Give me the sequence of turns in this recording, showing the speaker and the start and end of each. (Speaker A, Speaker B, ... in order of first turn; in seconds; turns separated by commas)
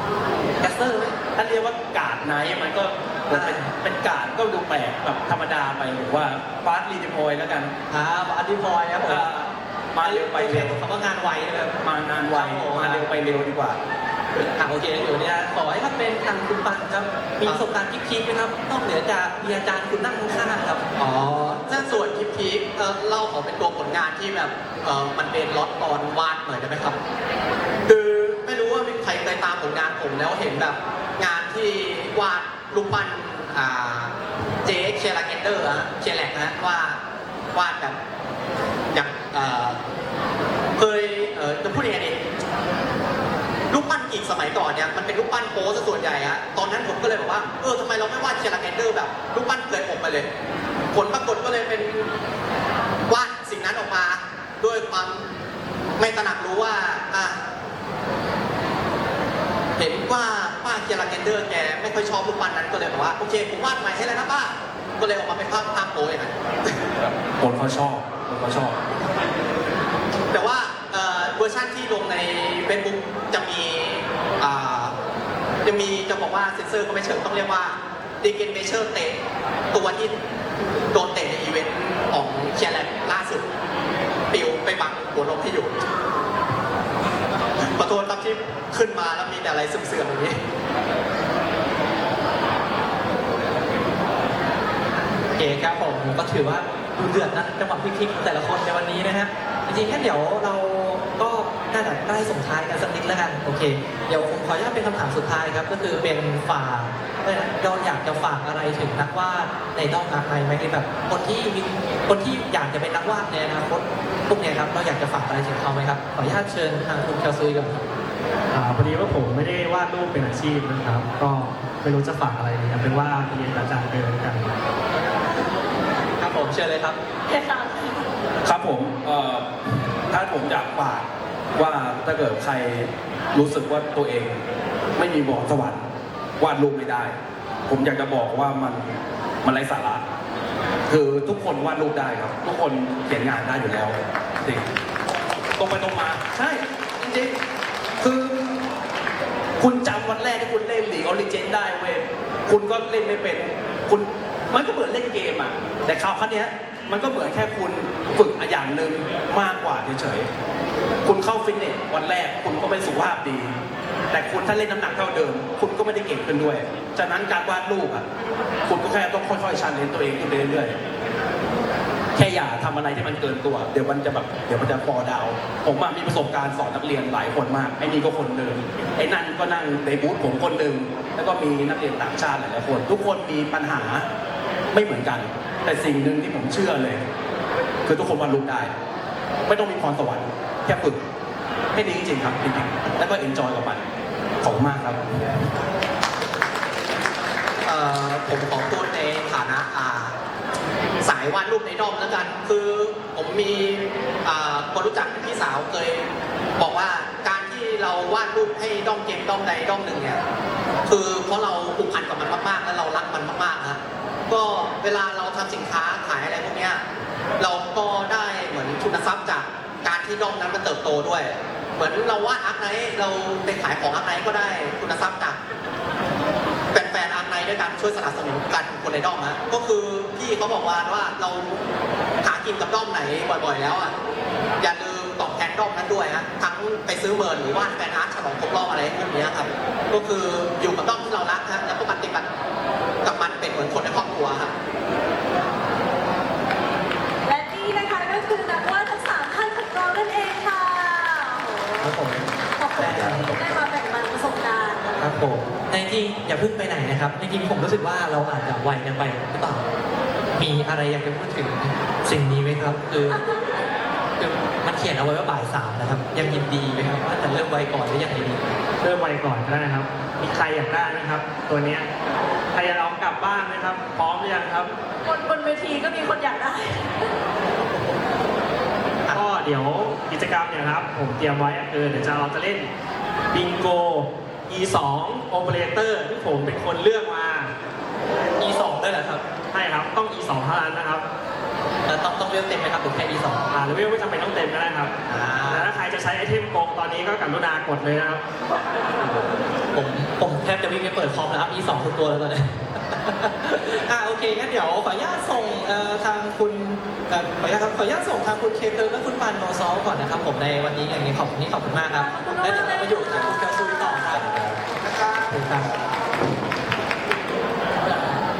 Speaker A: 0.6-1.2, Speaker B: 1.3-7.7, Speaker A: 3.3-3.7, Speaker A: 7.9-9.3, Speaker B: 9.0-10.8, Speaker A: 10.0-11.8, Speaker B: 11.8-13.8, Speaker A: 12.3-13.2, Speaker A: 14.4-20.8, Speaker C: 21.0-27.0, Speaker C: 27.9-37.0, Speaker C: 37.5-38.0, Speaker C: 38.9-39.8, Speaker C: 40.8-42.2, Speaker C: 43.7-50.3, Speaker C: 50.9-52.1, Speaker C: 53.1-55.3, Speaker C: 56.0-57.4, Speaker C: 59.8-66.8, Speaker B: 67.0-68.8, Speaker C: 70.3-75.0, Speaker C: 75.6-79.2, Speaker C: 79.7-80.2, Speaker C: 80.9-83.5, Speaker C: 84.3-85.9, Speaker C: 87.7-90.4, Speaker A: 95.4-117.8, Speaker D: 118.5-124.6, Speaker A: 126.2-127.0, Speaker E: 127.3-128.1, Speaker B: 128.4-134.4, Speaker B: 135.0-135.8, Speaker B: 136.4-137.1, Speaker B: 137.7-140.0, Speaker B: 140.9-144.7, Speaker B: 145.6-147.4, Speaker B: 148.0-148.7, Speaker B: 149.6-160.3, Speaker B: 161.0-163.6, Speaker B: 164.1-168.1, Speaker B: 168.7-170.8, Speaker B: 172.2-184.1, Speaker B: 184.7-187.0, Speaker B: 187.9-188.7, Speaker B: 189.5-191.0, Speaker B: 191.7-193.8, Speaker B: 194.4-195.4, Speaker C: 197.7-200.2, Speaker C: 201.0-210.2, Speaker C: 210.9-216.8, Speaker C: 217.4-225.4, Speaker C: 226.7-231.6, Speaker C: 232.2-233.9, Speaker C: 234.6-242.3, Speaker C: 243.0-244.5, Speaker E: 247.2-255.0, Speaker A: 251.8-252.2, Speaker A: 252.8-253.3, Speaker B: 252.8-253.3, Speaker A: 255.0-259.7, Speaker A: 260.4-263.2, Speaker E: 263.1-263.5, Speaker A: 264.2-268.4, Speaker D: 268.8-271.9, Speaker D: 272.5-274.7, Speaker E: 275.0-277.1, Speaker D: 279.1-282.7, Speaker D: 283.3-287.5, Speaker A: 288.4-289.2, Speaker D: 289.5-291.1, Speaker A: 291.9-293.5, Speaker D: 293.5-294.9, Speaker A: 295.1-295.7, Speaker D: 295.4-298.2, Speaker A: 299.0-314.6, Speaker E: 311.9-314.2, Speaker A: 315.1-315.8